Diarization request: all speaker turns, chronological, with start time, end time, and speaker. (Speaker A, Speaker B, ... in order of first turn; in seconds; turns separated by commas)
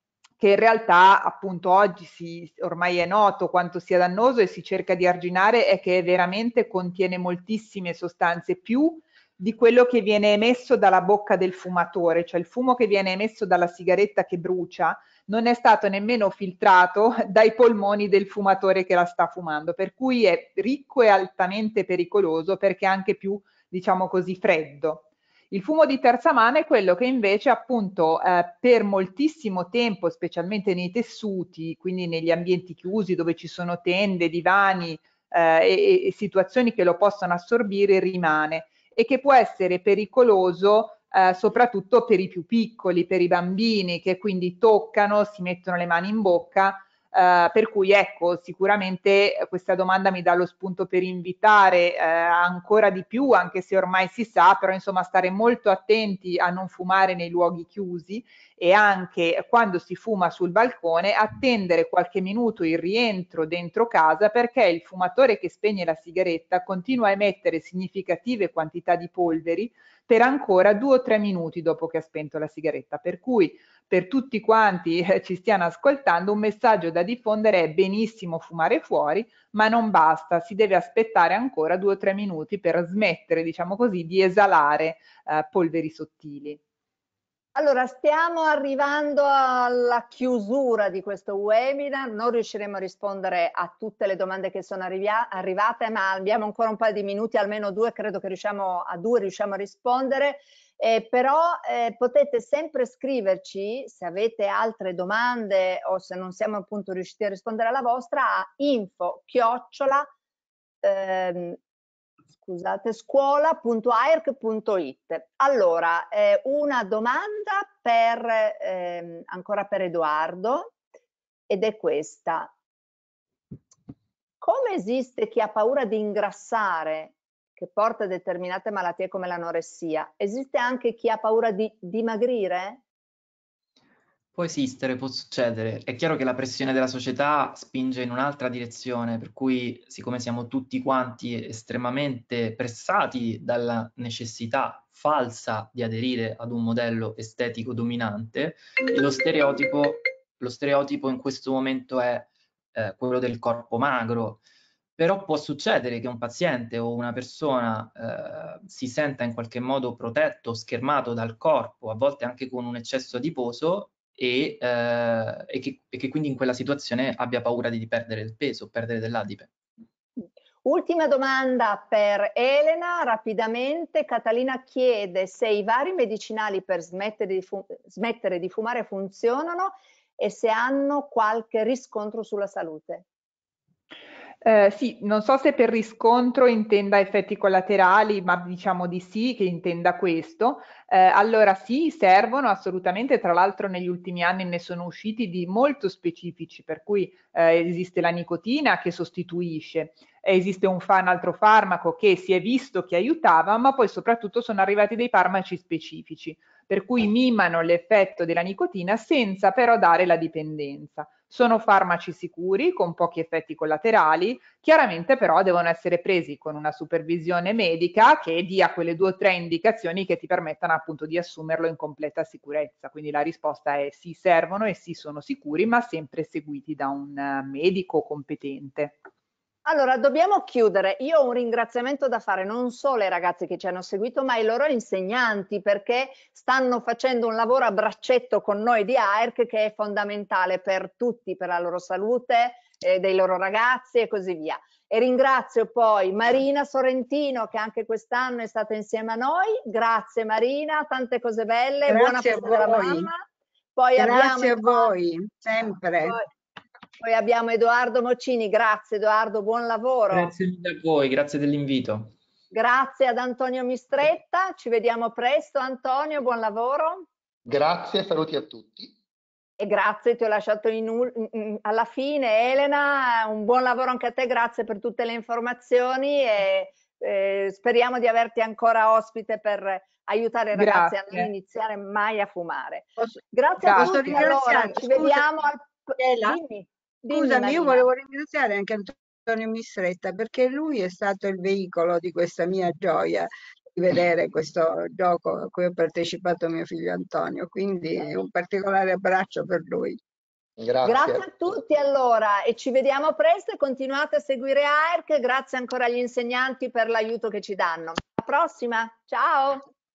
Speaker A: 0.4-86.6, Speaker B: 87.5-110.1, Speaker B: 110.8-111.6, Speaker B: 112.4-120.7, Speaker B: 121.5-122.5, Speaker B: 124.4-132.8, Speaker C: 134.3-154.4, Speaker C: 155.0-169.5, Speaker B: 170.2-183.0, Speaker A: 184.4-229.0, Speaker B: 229.6-253.2, Speaker D: 251.9-253.1, Speaker B: 253.8-254.9, Speaker D: 253.9-256.2, Speaker B: 257.0-260.3, Speaker C: 260.1-262.1, Speaker B: 262.5-267.1, Speaker E: 267.4-268.9, Speaker B: 269.6-287.9, Speaker A: 280.5-281.3, Speaker D: 283.0-285.2, Speaker A: 283.6-284.0, Speaker D: 286.0-286.4, Speaker D: 287.1-300.0, Speaker E: 300.6-301.3, Speaker B: 300.8-309.7